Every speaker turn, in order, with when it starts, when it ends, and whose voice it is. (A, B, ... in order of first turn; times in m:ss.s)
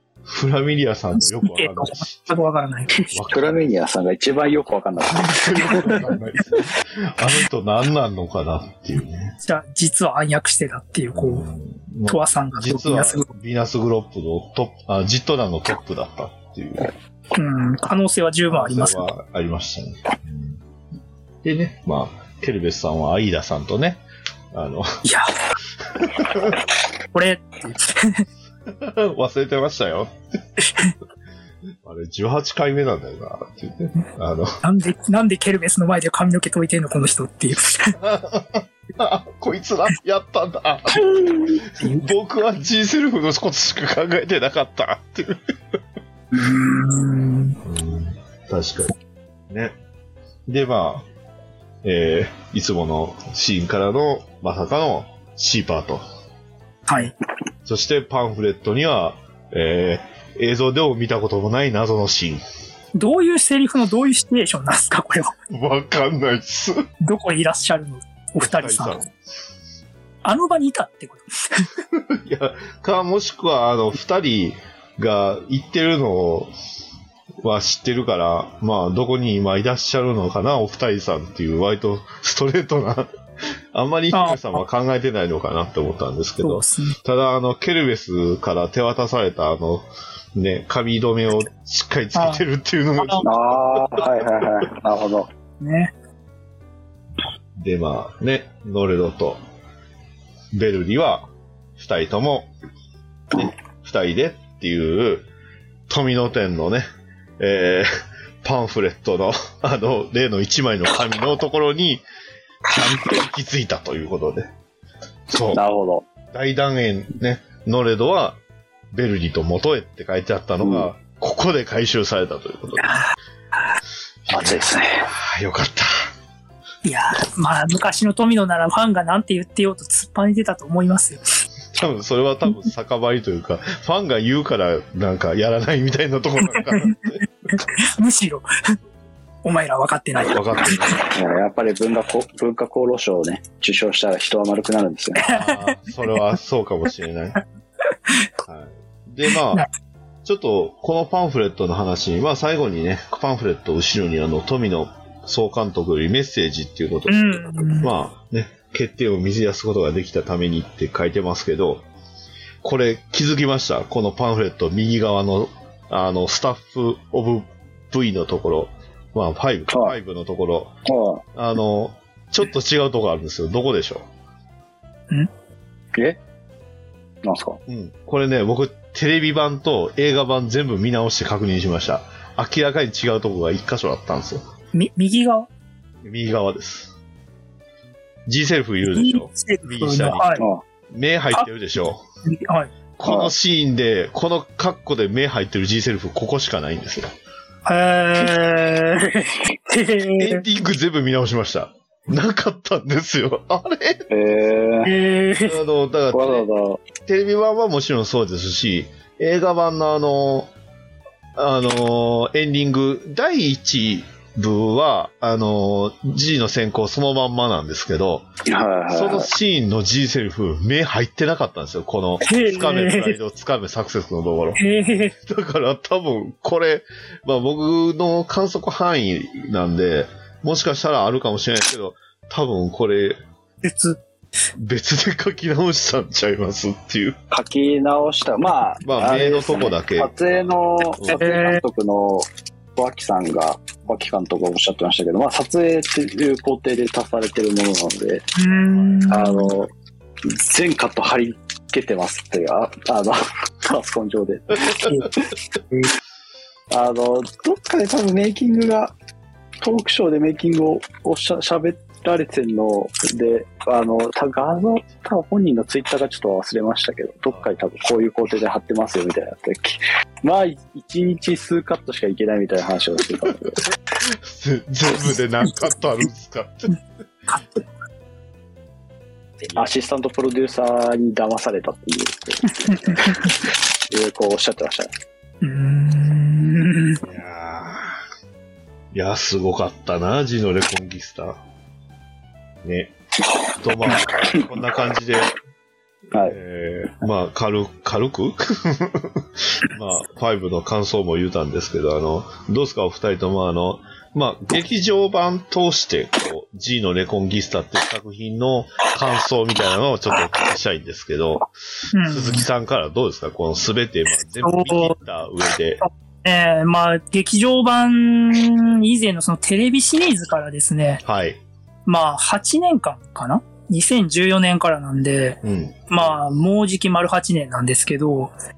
0:00.3-0:02.4 A
0:01.2-0:03.1 B
0:03.1-0:03.8 A
0:03.3-0:06.0 C
0:05.1-0:09.4 A
0:09.4-0:11.5 B
0:11.1-0:16.9 A
0:12.1-0:13.3 B
0:17.4-0:19.0 B
0:18.5-0:20.6 A
0:21.4-0:24.9 A
0:25.0-0:25.3 B
0:26.0-0:26.6 A
0:27.1-0:28.2 B
0:28.7-0:30.1 A
0:31.8-0:34.6 A
0:34.6-0:38.0 B
0:38.0-0:45.4 A
0:46.3-0:47.6 B
0:47.6-0:49.0 A
0:49.5-0:49.8 A
0:50.5-0:51.1 A
0:51.8-0:56.0 A
0:56.9-0:57.1 B
0:57.6-1:02.4 A
1:03.0-1:05.4 B
1:05.5-1:06.8 A
1:07.0-1:09.0 B
1:08.4-1:09.1 A
1:10.2-1:11.7 B
1:11.9-1:16.5 A
1:17.4-1:23.1 A
1:23.7-1:34.2 A
1:24.1-1:24.6 B
1:26.4-1:27.0 B
1:32.2-1:32.4 B
1:33.0-1:33.3 B
1:33.2-1:35.3 C
1:35.6-1:35.9 B
1:37.6-1:39.4 A
1:40.5-1:42.5 A
1:43.3-1:45.3 A
1:45.9-1:46.9 A
1:47.4-1:47.9 A
1:48.4-1:52.0 A
1:52.7-1:54.5 A
1:55.3-1:55.6 A
1:55.5-1:56.0 C
1:56.3-1:58.4 A
1:58.9-2:03.0 A
2:00.6-2:00.9 C
2:04.3-2:06.0 A
2:04.3-2:05.1 C
2:06.8-2:11.2 B
2:11.7-2:17.6 A
2:16.5-2:17.0 B
2:17.5-2:18.8 B
2:19.4-2:21.0 B
2:20.2-2:21.1 A
2:21.0-2:25.2 C
2:25.2-2:25.8 B
2:25.2-2:27.4 A
2:27.9-2:28.3 B
2:28.4-2:29.7 A
2:30.2-2:41.9 A
2:37.1-2:37.9 B
2:42.6-2:50.8 A
2:50.9-2:51.2 C
2:51.4-2:54.1 A
2:57.2-2:57.6 C
2:57.7-3:04.4 A
3:04.7-3:05.5 B
3:06.0-3:06.9 A
3:08.3-3:12.0 A
3:08.9-3:10.4 B
3:12.2-3:12.7 B
3:13.0-3:17.1 A
3:13.0-3:13.3 C
3:17.6-3:20.4 B
3:20.2-3:24.1 A
3:24.1-3:24.9 C
3:24.8-3:25.6 B
3:25.4-3:26.5 A
3:26.1-3:26.8 C
3:27.0-3:30.5 A
3:31.4-3:38.3 A
3:38.5-3:39.3 C
3:38.9-3:53.2 A
3:42.2-3:43.2 B
3:44.6-3:45.1 B
3:53.6-3:54.0 B
3:54.6-3:57.2 A
3:57.3-4:08.3 C
3:58.8-4:00.1 A
4:01.1-4:01.6 B
4:08.4-4:09.5 B
4:08.6-4:09.1 A
4:09.1-4:09.7 C
4:10.2-4:15.2 C
4:16.7-4:18.9 C
4:19.6-4:33.6 C
4:27.3-4:27.5 A
4:34.0-4:36.8 A
4:37.3-4:37.6 B
4:39.4-4:39.7 A
4:39.6-4:44.9 C
4:42.5-4:43.4 B
4:45.4-4:47.0 B
4:47.0-4:48.0 A
4:48.9-4:51.4 A
4:52.6-4:53.0 A
4:53.6-4:55.4 A
4:53.9-4:54.5 C
4:56.2-5:15.8 A
5:11.9-5:12.5 B
5:14.4-5:15.0 B
5:15.8-5:21.0 B
5:21.0-5:21.4 A
5:21.9-5:28.3 B
5:25.4-5:26.1 A